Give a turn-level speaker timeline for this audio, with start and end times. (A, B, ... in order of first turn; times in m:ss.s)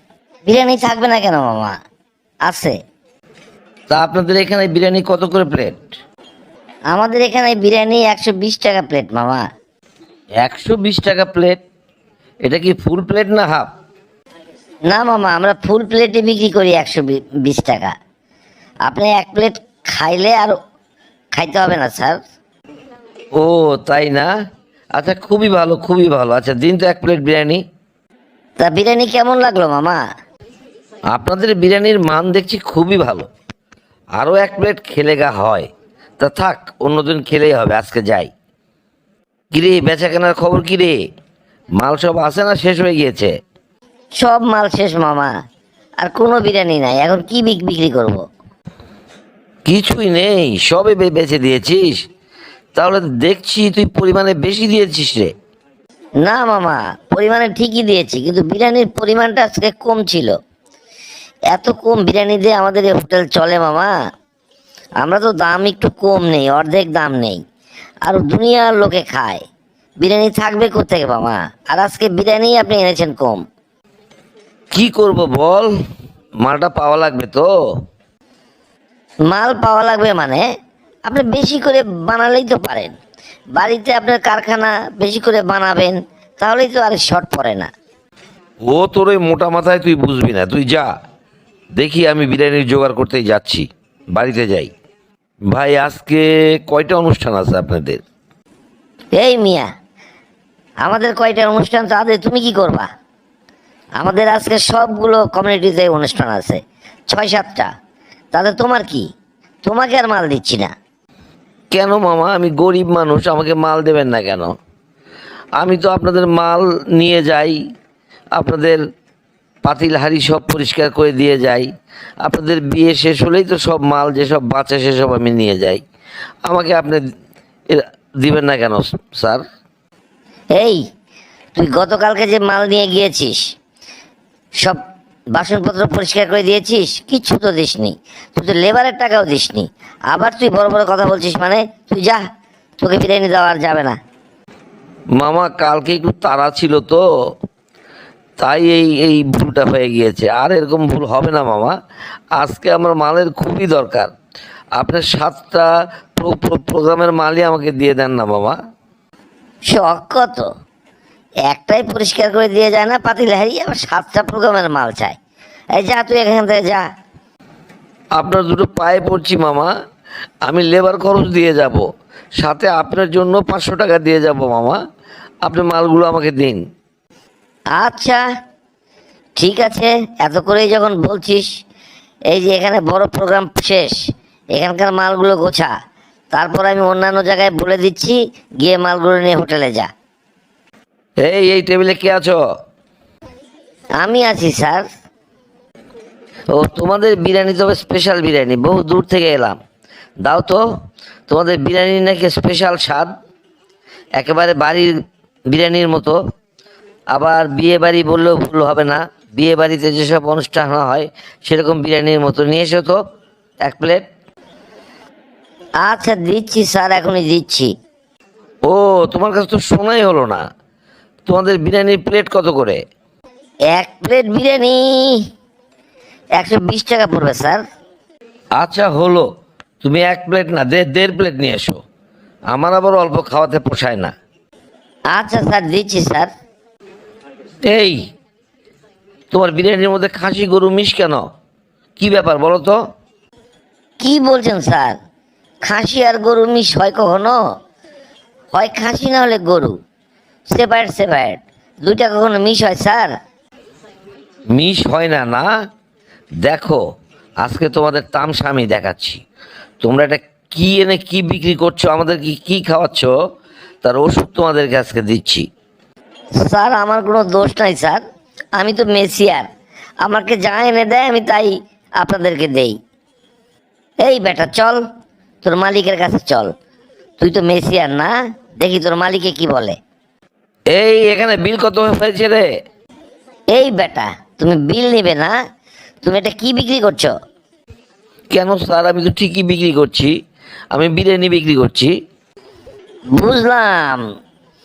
0:00.5-0:01.8 A
0:02.5-0:02.8 A
0:03.9-0:06.0 B
0:06.9-0:09.4 A
0:10.4-0:11.6 B
0:12.4-0:13.7 B
0:14.9-0:18.0 A
0:18.9-0:20.6 A
0:21.4-0:22.2 A
0:23.4-0:24.3 B
0:25.0-0:27.6 B
0:28.6-0:30.0 A
0:31.1-0:33.3 B
0:34.2-0:35.7 B
0:36.2-0:38.3 B
0:39.5-0:41.0 B
0:41.8-0:43.3 B
0:44.2-0:45.3 A
0:46.0-0:48.2 A
0:49.7-0:52.0 B
0:52.8-0:55.3 B
0:56.2-1:00.4 A
1:01.5-1:04.0 A
1:05.0-1:07.4 A
1:08.1-1:09.4 A
1:10.0-1:13.4 A
1:14.7-1:15.7 B
1:16.4-1:17.5 B
1:19.3-1:20.4 A
1:21.1-1:23.0 A
1:23.6-1:27.7 A
1:28.6-1:30.9 B
1:31.8-1:34.7 B
1:35.5-1:38.0 B
1:39.2-1:39.7 A
1:40.8-1:42.9 A
1:44.0-1:47.7 A
1:48.3-1:49.1 A
1:49.6-1:50.7 A
1:51.7-1:54.5 B
1:55.6-1:57.6 B
1:58.4-1:58.8 B
1:59.6-2:01.7 B
2:02.2-2:05.8 B
2:06.4-2:07.0 B
2:07.7-2:09.4 B
2:10.6-2:10.8 A
2:11.6-2:13.5 A
2:15.4-2:22.2 A
2:22.8-2:24.0 A
2:25.2-2:27.0 B
2:28.4-2:31.8 B
2:32.4-2:34.1 B
2:34.8-2:38.6 B
2:39.7-2:40.4 A
2:41.5-2:45.2 A
2:45.8-2:46.8 A
2:48.2-2:49.7 B
2:50.4-2:51.8 B
2:52.4-2:54.8 B
2:55.5-2:56.6 B
2:57.8-2:58.2 A
2:59.4-3:01.5 A
3:02.3-3:04.0 A
3:04.6-3:05.7 A
3:06.3-3:09.9 A
3:11.2-3:12.4 B
3:14.0-3:14.9 A
3:16.5-3:19.6 B
3:20.2-3:20.6 B
3:21.3-3:23.1 B
3:24.2-3:25.0 B
3:25.5-3:26.2 B
3:27.1-3:33.0 B
3:33.6-3:34.1 B
3:35.8-3:37.7 A
3:38.7-3:40.4 B
3:41.3-3:42.8 B
3:43.7-3:45.2 A
3:46.4-3:47.6 A
3:48.6-3:49.3 B
3:49.8-3:51.8 B
3:52.5-3:54.2 B
3:55.1-3:56.3 A
3:57.6-3:58.0 B
3:59.3-4:01.2 B
4:02.0-4:02.8 B
4:04.0-4:05.0 A
4:05.6-4:07.4 A
4:08.5-4:09.8 A
4:10.5-4:13.1 A
4:14.5-4:15.5 B
4:16.4-4:16.8 B
4:17.4-4:19.2 B
4:19.8-4:23.1 B
4:23.8-4:25.5 B
4:26.5-4:28.0 A
4:28.6-4:29.5 A
4:30.0-4:32.8 A
4:34.0-4:34.8 A
4:35.4-4:36.5 A
4:37.2-4:39.8 A
4:40.7-4:42.5 B
4:43.5-4:45.4 A
4:46.0-4:47.1 A
4:48.3-4:50.1 B
4:50.7-4:52.0 B
4:53.2-4:54.0 A